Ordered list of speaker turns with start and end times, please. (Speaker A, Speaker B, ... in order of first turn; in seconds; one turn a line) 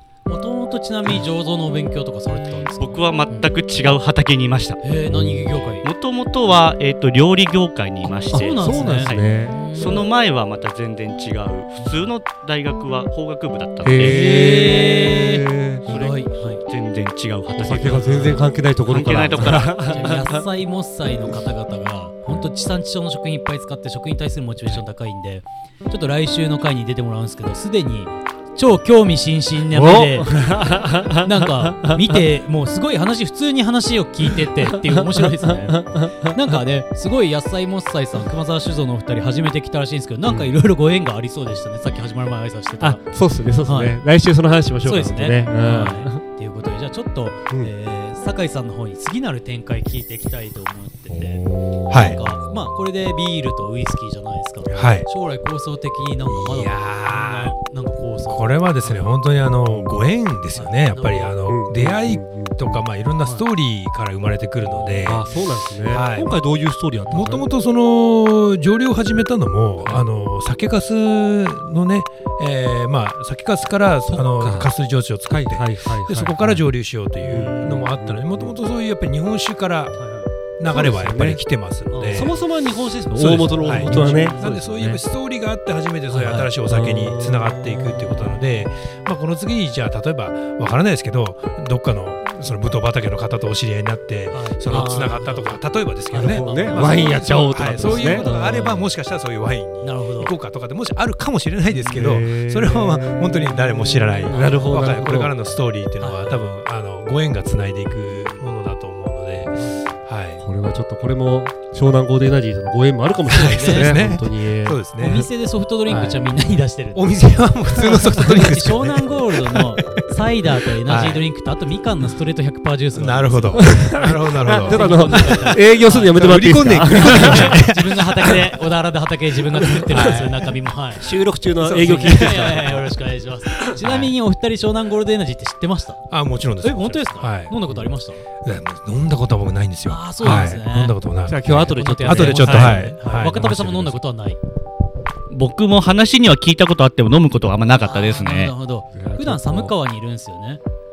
Speaker A: 0.3-3.5
Speaker B: 2.8-4.8
Speaker A: 4.8-5.8
Speaker C: 5.1-5.7
Speaker B: 5.8-14.4
Speaker A: 8.1-10.0
Speaker C: 8.3-9.6
Speaker C: 13.8-16.2
Speaker A: 14.0-16.6
Speaker B: 16.3-20.1
Speaker C: 17.6-20.4
Speaker A: 19.7-30.4
Speaker C: 29.7-32.2
Speaker A: 31.2-43.0
Speaker C: 34.6-36.6
Speaker C: 40.3-40.5
Speaker C: 42.8-46.2
Speaker A: 43.6-44.0
Speaker A: 44.9-59.1
Speaker C: 51.1-52.7
Speaker D: 51.9-52.2
Speaker D: 54.7-55.1
Speaker D: 56.2-57.6
Speaker D: 58.3-65.3
Speaker A: 60.5-61.3
Speaker C: 61.5-62.8
Speaker A: 64.6-65.1
Speaker C: 65.0-67.5
Speaker D: 65.9-66.3
Speaker D: 67.1-80.0
Speaker C: 74.1-74.7
Speaker C: 75.3-76.6
Speaker C: 77.2-78.6
Speaker A: 77.3-77.8
Speaker A: 80.0-80.3
Speaker D: 80.6-82.4
Speaker C: 80.7-81.4
Speaker A: 81.9-82.3
Speaker C: 82.1-85.0
Speaker D: 83.1-110.4
Speaker A: 83.7-84.5
Speaker A: 86.1-86.5
Speaker C: 86.7-88.4
Speaker A: 94.3-98.8
Speaker C: 94.7-95.2
Speaker C: 96.1-98.8
Speaker A: 99.8-100.3
Speaker A: 101.8-102.0
Speaker C: 101.9-105.3
Speaker A: 104.3-104.8
Speaker A: 106.0-106.5
Speaker A: 109.5-109.8
Speaker C: 110.4-114.8
Speaker D: 113.3-115.3
Speaker A: 113.3-114.0
Speaker A: 115.0-117.1
Speaker D: 115.9-116.2
Speaker D: 117.0-120.0
Speaker A: 117.9-123.8
Speaker D: 120.6-121.2
Speaker D: 123.0-128.6
Speaker C: 123.6-127.6
Speaker A: 124.6-136.0
Speaker C: 129.6-130.3
Speaker D: 129.8-130.5
Speaker C: 131.0-132.9
Speaker D: 133.7-134.1
Speaker D: 136.1-137.8
Speaker A: 136.6-138.2
Speaker D: 138.4-144.0
Speaker A: 139.9-141.0
Speaker C: 141.2-142.9
Speaker A: 141.6-144.4
Speaker B: 145.3-148.5
Speaker A: 147.8-150.6
Speaker C: 148.9-149.7